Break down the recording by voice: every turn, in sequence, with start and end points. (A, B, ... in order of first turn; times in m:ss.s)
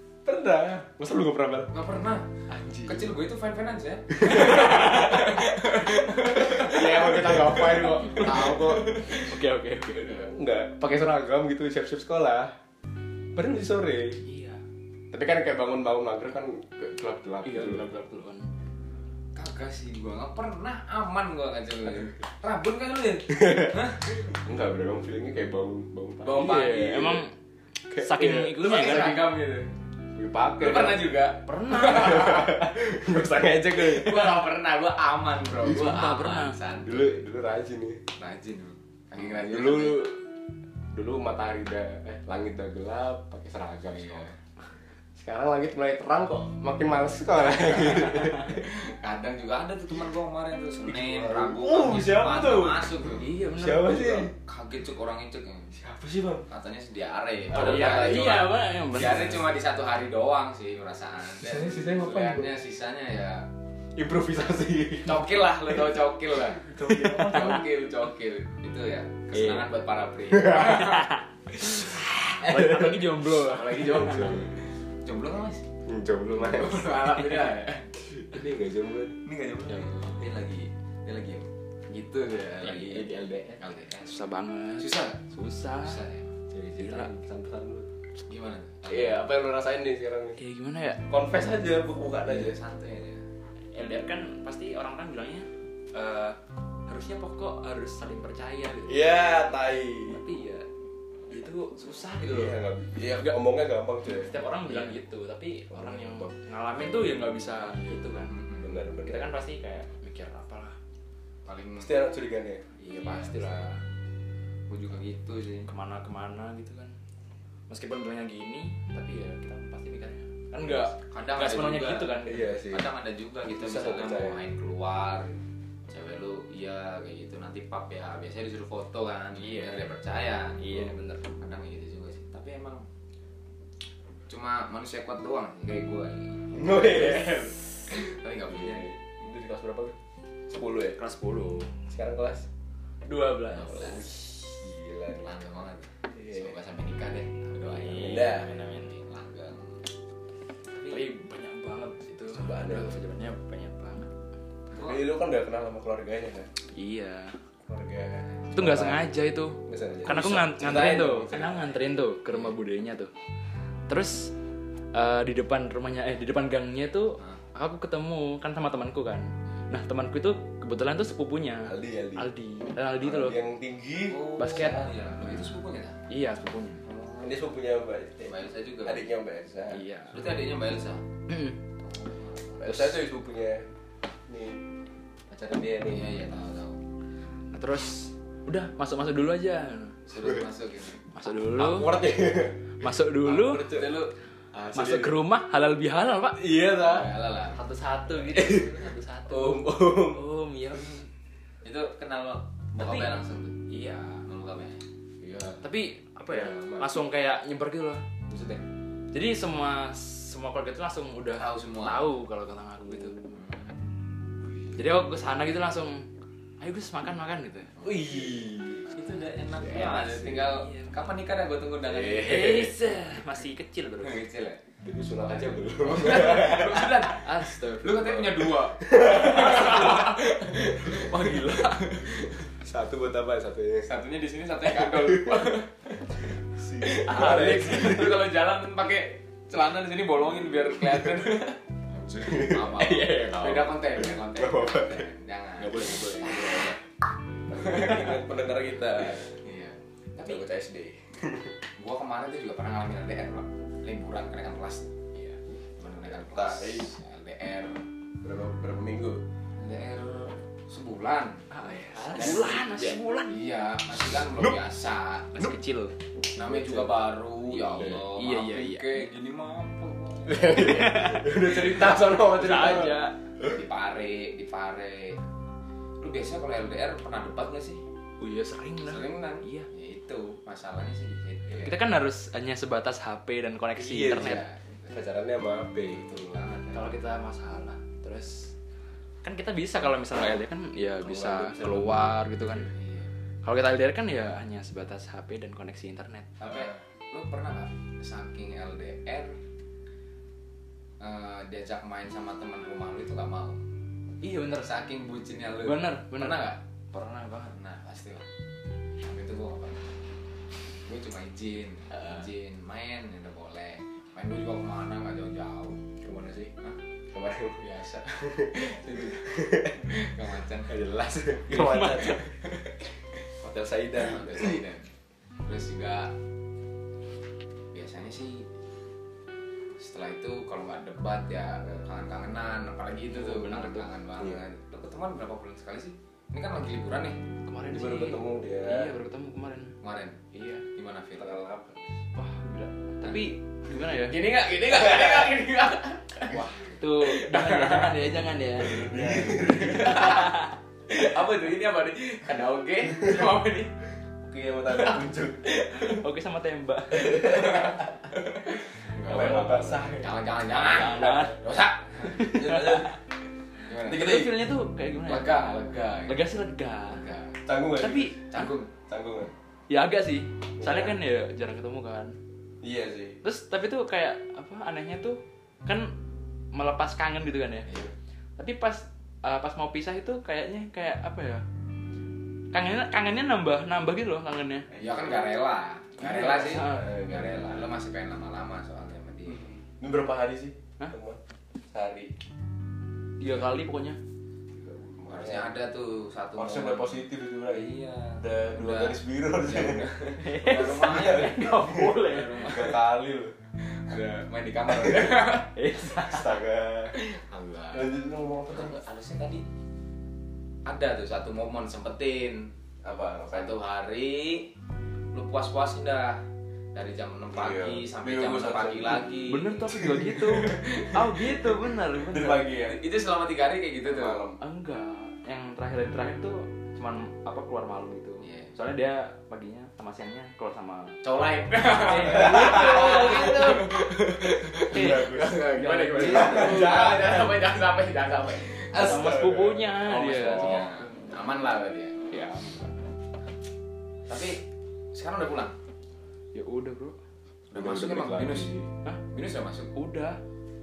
0:00.2-0:01.7 A
0:01.7-0:09.0 B
0:02.5-0:03.1 A
0:04.2-0:05.4 A
0:04.5-0:05.0 C
0:06.1-0:09.2 A
0:06.8-0:10.3 C
0:10.1-0:12.5 A
0:13.3-0:14.2 A
0:14.2-0:14.6 C
0:15.1-0:17.9 A
0:17.4-0:18.5 C
0:19.3-0:24.1 B
0:23.3-0:27.2 A
0:26.2-0:27.0 B
0:26.3-0:27.3 C
0:27.9-0:29.1 A
0:27.9-0:29.2 C
0:28.6-0:29.7 B
0:30.1-0:31.1 A
0:30.6-0:32.4 B
0:31.4-0:32.6 C
0:31.7-0:34.5 A
0:33.7-0:37.1 B
0:35.6-0:36.6 C
0:36.8-0:38.0 A
0:38.2-0:40.0 B
0:39.2-0:40.2 A
0:40.9-0:44.3 A
0:44.0-0:44.3 B
0:45.2-0:48.6 A
0:47.8-0:53.2 B
0:50.8-0:52.9 A
0:53.1-0:54.2 C
0:53.5-0:54.3 A
0:54.4-0:55.7 B
0:55.7-0:56.5 A
0:56.5-1:03.4 B
0:57.5-0:58.4 A
0:57.5-0:59.5 C
1:01.4-1:02.5 A
1:04.0-1:05.9 A
1:05.0-1:11.2 B
1:06.6-1:07.6 A
1:06.7-1:07.6 C
1:09.4-1:09.6 C
1:10.5-1:14.4 C
1:12.4-1:14.5 A
1:13.4-1:14.5 B
1:15.0-1:15.6 B
1:15.8-1:17.0 A
1:16.3-1:17.9 B
1:18.1-1:19.2 A
1:19.2-1:24.2 B
1:22.6-1:23.6 A
1:24.0-1:26.0 C
1:24.8-1:25.2 B
1:25.8-1:26.3 B
1:26.5-1:27.9 A
1:26.8-1:27.1 C
1:28.3-1:29.2 B
1:28.9-1:30.4 A
1:30.4-1:31.0 C
1:31.1-1:32.6 A
1:32.2-1:33.2 B
1:33.7-1:39.4 C
1:38.8-1:40.2 A
1:40.0-1:40.7 C
1:41.3-1:42.6 C
1:42.2-1:45.0 A
1:44.1-1:48.3 C
1:45.7-1:46.3 A
1:48.3-1:48.7 B
1:48.6-1:49.3 A
1:49.0-1:50.8 C
1:51.4-1:51.9 B
1:51.8-1:53.4 A
1:52.8-1:53.8 C
1:54.7-1:55.7 B
1:55.7-1:56.9 C
1:57.7-2:02.6 C
2:01.1-2:02.2 B
2:02.2-2:02.9 A
2:02.7-2:10.6 B
2:03.6-2:04.4 A
2:09.4-2:09.9 C
2:10.6-2:11.3 C
2:11.4-2:12.8 B
2:14.3-2:17.3 B
2:16.5-2:17.5 A
2:17.9-2:19.0 B
2:18.5-2:20.0 A
2:20.5-2:21.0 A
2:20.9-2:21.7 C
2:21.9-2:22.5 A
2:23.1-2:24.3 C
2:23.6-2:24.0 B
2:23.6-2:25.3 A
2:25.2-2:29.8 B
2:26.1-2:26.5 A
2:27.8-2:28.9 C
2:27.9-2:28.5 A
2:30.7-2:31.1 B
2:30.9-2:34.1 C
2:32.2-2:32.9 A
2:34.7-2:35.0 B
2:34.7-2:36.5 A
2:36.7-2:37.4 C
2:37.6-2:39.1 A
2:38.5-2:43.1 C
2:39.6-2:41.7 A
2:43.9-2:44.3 C
2:44.9-2:53.4 C
2:51.6-2:52.3 A
2:53.0-2:54.8 A
2:54.1-2:56.0 B
2:54.4-2:54.8 C
2:56.1-2:56.8 C
2:56.8-2:57.3 B
2:57.2-2:59.8 A
2:58.2-2:59.0 B
2:59.7-3:00.2 C
3:00.1-3:01.0 B
3:01.3-3:01.6 C
3:01.8-3:02.7 B
3:02.6-3:03.7 A
3:02.7-3:03.0 C
3:04.3-3:04.6 A
3:05.3-3:06.2 A
3:05.8-3:06.8 B
3:07.5-3:10.0 C
3:10.1-3:11.0 B
3:11.1-3:12.0 C
3:11.5-3:12.7 A
3:12.8-3:13.7 C
3:13.2-3:13.9 A
3:13.6-3:14.1 B
3:14.5-3:15.2 A
3:14.7-3:16.4 C
3:16.4-3:17.1 A
3:16.8-3:17.6 B
3:17.5-3:21.0 C
3:18.3-3:18.8 A
3:19.3-3:20.2 A
3:21.6-3:23.6 B
3:22.8-3:23.1 C
3:23.7-3:24.2 C
3:24.2-3:24.8 B
3:25.2-3:25.6 A
3:25.6-3:28.0 C
3:26.3-3:27.0 A
3:28.3-3:28.6 B
3:29.1-3:33.2 C
3:31.4-3:32.1 B
3:33.3-3:33.7 B
3:34.8-3:36.0 C
3:36.6-3:37.7 C
3:37.8-3:38.4 B
3:37.8-3:38.9 A
3:38.9-3:42.7 B
3:39.6-3:40.4 A
3:39.7-3:41.1 C
3:41.9-3:42.7 A
3:42.1-3:44.2 C
3:44.0-3:44.6 B
3:44.8-3:47.0 A
3:45.3-3:51.6 B
3:46.2-3:48.3 C
3:48.2-3:51.6 A
3:49.3-3:50.0 C
3:50.8-3:51.9 C
3:52.2-3:53.9 A
3:53.8-3:55.8 B
3:54.8-3:55.5 A
3:56.6-3:58.2 A
3:56.8-4:01.6 B
3:57.0-3:58.1 C
4:01.9-4:05.1 A
4:02.2-4:06.7 B
4:05.6-4:06.8 A
4:07.5-4:09.3 A
4:07.6-4:08.1 B
4:09.4-4:10.4 B
4:10.2-4:11.5 A
4:11.8-4:14.9 B
4:15.8-4:17.8 B
4:16.0-4:16.9 A
4:18.2-4:19.2 A
4:19.6-4:25.5 B
4:21.5-4:23.3 C
4:22.1-4:23.0 A
4:24.3-4:24.6 A
4:25.3-4:25.9 C
4:26.3-4:30.7 B
4:26.4-4:26.9 A
4:27.7-4:29.1 C
4:27.7-4:28.1 A
4:30.3-4:33.0 A
4:30.4-4:33.2 C
4:33.4-4:35.2 B
4:36.0-4:37.8 B
4:38.2-4:39.7 C
4:38.8-4:41.8 B
4:41.6-4:44.4 C
4:43.8-4:46.0 A
4:44.1-4:45.0 B
4:45.9-4:46.9 B
4:46.7-4:48.5 C
4:49.2-4:52.7 C
4:51.0-4:52.2 A
4:52.6-4:53.1 B
4:53.4-4:56.3 C
4:56.4-4:59.4 B
5:01.0-5:03.6 B
5:04.2-5:04.7 C
5:04.6-5:06.6 B
5:05.6-5:07.6 C
5:07.5-5:08.2 B
5:09.0-5:09.9 B
5:10.8-5:15.8 B
5:16.0-5:16.5 A
5:17.1-5:17.6 A
5:17.6-5:20.7 B
5:18.3-5:20.0 A
5:20.6-5:22.4 A
5:21.5-5:22.2 C
5:23.4-5:24.6 A
5:24.0-5:24.9 B
5:25.4-5:26.1 B
5:27.7-5:28.5 B
5:29.8-5:37.2 B
5:33.1-5:33.9 C
5:37.4-5:39.7 C
5:37.7-5:38.9 A
5:39.8-5:40.2 B
5:40.3-5:40.6 C
5:40.7-5:41.4 B
5:41.2-5:41.8 A
5:42.2-5:44.2 C
5:43.0-5:47.6 B
5:46.3-5:46.8 A
5:46.8-5:50.5 C
5:48.6-5:50.2 A
5:49.4-5:50.4 B
5:50.9-5:53.7 B
5:54.2-5:56.0 A
5:55.7-5:57.8 C
5:56.9-5:58.0 A
5:57.2-5:57.8 B
5:58.9-6:02.4 B
5:59.0-5:59.9 C
5:59.0-6:00.1 A
6:00.5-6:01.4 C
6:00.8-6:01.3 A
6:02.0-6:03.0 C
6:02.1-6:03.0 A
6:03.7-6:04.2 B
6:03.8-6:04.4 A
6:03.8-6:05.5 C
6:05.0-6:06.2 B
6:06.1-6:07.0 C
6:06.9-6:07.3 B
6:07.4-6:08.2 A
6:07.8-6:08.2 C
6:08.3-6:08.7 B
6:08.9-6:09.3 A
6:09.7-6:12.2 C
6:10.6-6:11.0 A
6:12.6-6:13.2 A
6:13.2-6:15.9 C
6:16.5-6:17.7 C
6:18.4-6:21.4 C
6:22.5-6:24.7 C
6:24.7-6:25.3 A
6:24.8-6:29.6 B
6:26.0-6:27.7 A
6:26.0-6:26.9 C
6:29.3-6:31.2 A
6:31.7-6:32.1 A
6:33.2-6:34.0 C
6:34.5-6:35.5 A
6:35.0-6:41.5 B
6:36.4-6:39.9 A
6:40.2-6:42.6 C
6:40.4-6:43.3 A
6:42.0-6:42.8 B
6:43.7-6:45.6 B
6:44.7-6:45.1 A
6:45.4-6:46.4 C
6:45.9-6:46.9 A
6:46.9-6:47.9 B
6:47.7-6:48.8 A
6:48.5-6:49.4 B
6:50.6-6:52.5 B
6:52.8-6:53.6 A
6:53.3-6:54.5 B
6:55.1-6:56.2 B
6:56.7-6:59.6 B
6:57.4-6:59.0 A
6:59.3-7:02.5 C
6:59.7-7:02.8 A
7:02.6-7:04.2 B
7:03.8-7:04.4 A
7:04.4-7:11.0 C
7:08.2-7:08.5 B
7:11.0-7:19.2 B
7:11.7-7:13.8 C
7:12.0-7:17.4 A
7:14.6-7:17.0 C
7:18.7-7:20.7 A
7:18.7-7:21.0 C
7:19.9-7:22.0 B
7:22.1-7:22.7 C
7:24.1-7:25.5 B
7:26.3-7:27.0 C
7:27.5-7:28.5 B
7:27.5-7:28.7 A
7:29.1-7:29.7 B
7:29.7-7:30.2 C